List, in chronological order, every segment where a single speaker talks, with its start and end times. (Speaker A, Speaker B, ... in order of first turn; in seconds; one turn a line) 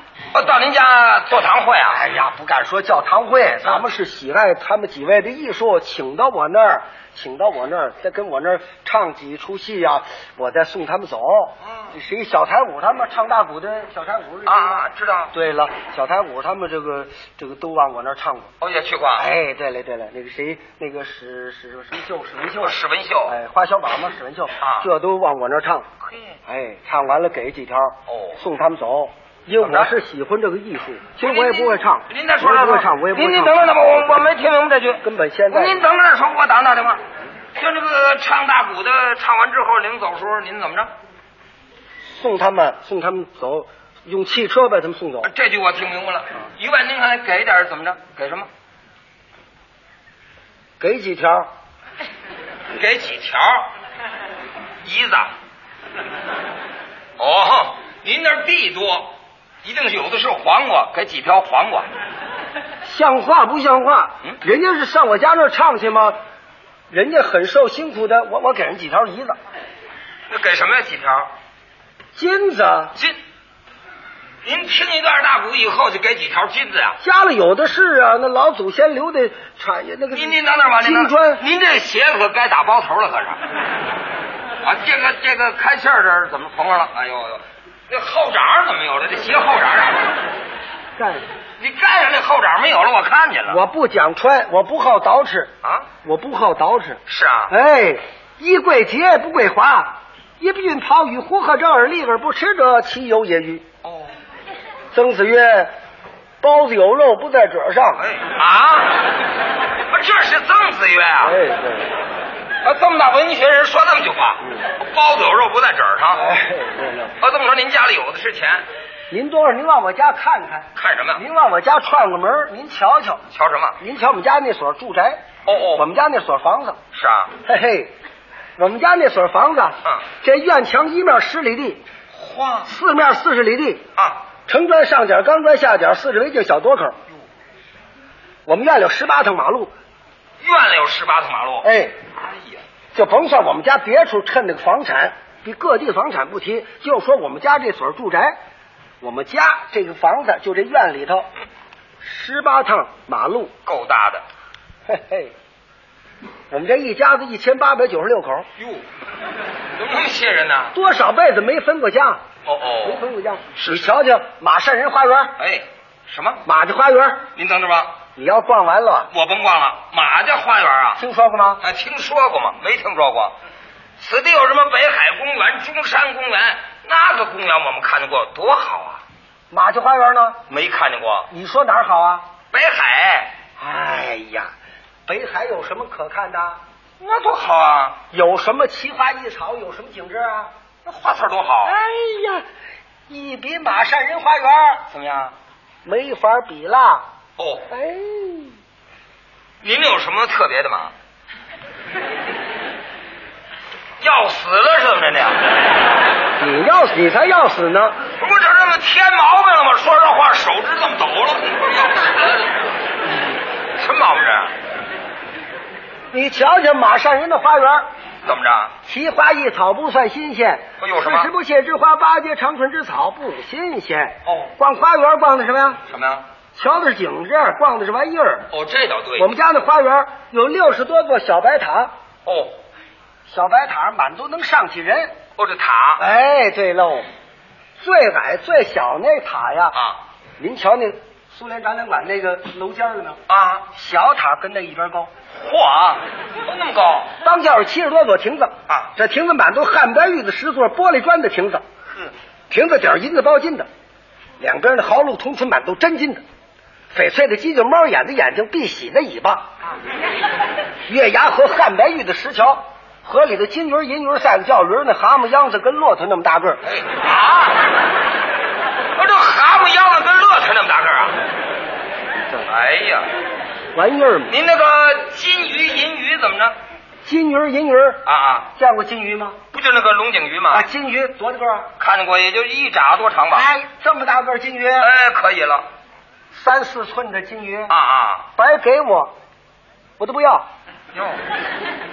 Speaker A: 0.3-2.0
Speaker B: 1.9-14.8
Speaker A: 11.6-11.9
Speaker A: 14.5-15.3
Speaker B: 15.3-18.5
Speaker A: 18.6-19.3
Speaker B: 19.1-25.9
Speaker A: 22.6-23.4
Speaker A: 24.6-24.9
Speaker A: 26.0-26.4
Speaker B: 26.5-34.2
Speaker A: 28.1-28.4
Speaker A: 29.6-29.9
Speaker A: 31.2-37.0
Speaker B: 35.0-35.9
Speaker A: 37.5-40.9
Speaker B: 42.0-45.3
Speaker A: 45.2-48.5
Speaker B: 50.8-51.5
Speaker A: 52.8-53.7
Speaker A: 54.8-55.3
Speaker A: 57.2-61.9
Speaker B: 62.8-66.2
Speaker B: 66.9-69.4
Speaker A: 70.3-71.3
Speaker B: 72.1-73.0
Speaker A: 74.4-77.0
Speaker B: 77.0-81.4
Speaker A: 80.1-83.4
Speaker A: 84.6-90.1
Speaker B: 91.0-91.2
Speaker A: 91.6-93.6
Speaker B: 93.5-95.5
Speaker A: 95.6-95.9
Speaker B: 96.0-103.7
Speaker A: 97.1-97.5
Speaker A: 103.8-104.1
Speaker B: 104.9-105.7
Speaker B: 106.4-108.0
Speaker A: 108.0-109.0
Speaker A: 109.9-111.4
Speaker B: 111.2-112.0
Speaker A: 112.6-116.2
Speaker B: 114.4-114.7
Speaker B: 116.1-117.2
Speaker A: 117.2-118.6
Speaker B: 119.1-123.2
Speaker A: 120.8-121.2
Speaker A: 123.3-123.8
Speaker B: 123.8-126.8
Speaker A: 125.5-125.8
Speaker A: 126.9-127.3
Speaker B: 127.5-127.9
Speaker B: 128.6-131.8
Speaker A: 132.1-132.7
Speaker B: 132.7-133.9
Speaker B: 134.5-137.0
Speaker B: 138.5-139.7
Speaker A: 140.4-141.7
Speaker B: 141.6-141.9
Speaker A: 142.3-142.6
Speaker B: 142.9-148.4
Speaker B: 149.0-151.3
Speaker B: 152.0-153.5
Speaker A: 153.6-154.2
Speaker B: 154.9-155.3
Speaker B: 156.5-158.5
Speaker A: 158.6-158.8
Speaker A: 159.8-160.8
Speaker B: 160.7-162.2
Speaker A: 162.5-163.0
Speaker B: 162.8-165.3
Speaker A: 163.5-163.9
Speaker A: 165.4-166.4
Speaker B: 166.4-167.3
Speaker A: 167.3-168.0
Speaker B: 168.2-169.1
Speaker A: 169.1-171.0
Speaker B: 171.0-171.6
Speaker A: 171.6-173.3
Speaker A: 174.0-179.0
Speaker B: 179.5-180.4
Speaker A: 180.5-181.3
Speaker B: 181.3-182.3
Speaker A: 182.5-183.3
Speaker B: 183.6-184.5
Speaker B: 185.1-186.6
Speaker A: 187.0-188.0
Speaker B: 188.1-190.5
Speaker A: 190.8-191.8
Speaker B: 191.6-192.5
Speaker B: 193.1-194.8
Speaker A: 194.9-195.3
Speaker B: 195.8-197.0
Speaker A: 197.4-197.7
Speaker B: 197.7-198.5
Speaker A: 199.6-200.9
Speaker A: 204.0-205.4
Speaker B: 206.4-208.0
Speaker A: 208.2-212.8
Speaker A: 213.8-214.5
Speaker B: 216.1-217.9
Speaker A: 218.2-218.8
Speaker B: 218.9-225.8
Speaker A: 220.8-221.3
Speaker A: 224.2-224.5
Speaker A: 225.9-226.2
Speaker B: 226.5-228.5
Speaker A: 228.5-229.3
Speaker B: 229.2-231.9
Speaker A: 232.2-232.6
Speaker B: 233.3-235.2
Speaker A: 235.4-236.0
Speaker B: 236.0-237.1
Speaker B: 237.8-239.8
Speaker A: 239.7-240.0
Speaker B: 240.4-243.2
Speaker A: 243.3-243.7
Speaker B: 243.7-245.1
Speaker A: 245.3-247.1
Speaker B: 247.2-251.6
Speaker B: 252.5-253.7
Speaker B: 254.4-256.2
Speaker B: 256.9-259.5
Speaker B: 260.9-266.6
Speaker A: 266.6-267.7
Speaker A: 268.9-271.2
Speaker A: 272.5-273.1
Speaker B: 273.8-274.4
Speaker A: 274.3-276.5
Speaker B: 277.0-278.0
Speaker A: 278.0-278.5
Speaker B: 278.5-279.4
Speaker A: 279.5-280.7
Speaker B: 280.5-281.7
Speaker A: 281.8-283.5
Speaker B: 283.3-284.9
Speaker A: 284.8-285.7
Speaker B: 286.3-287.7
Speaker A: 287.7-288.3
Speaker B: 288.4-289.1
Speaker B: 290.0-290.5
Speaker A: 290.9-291.2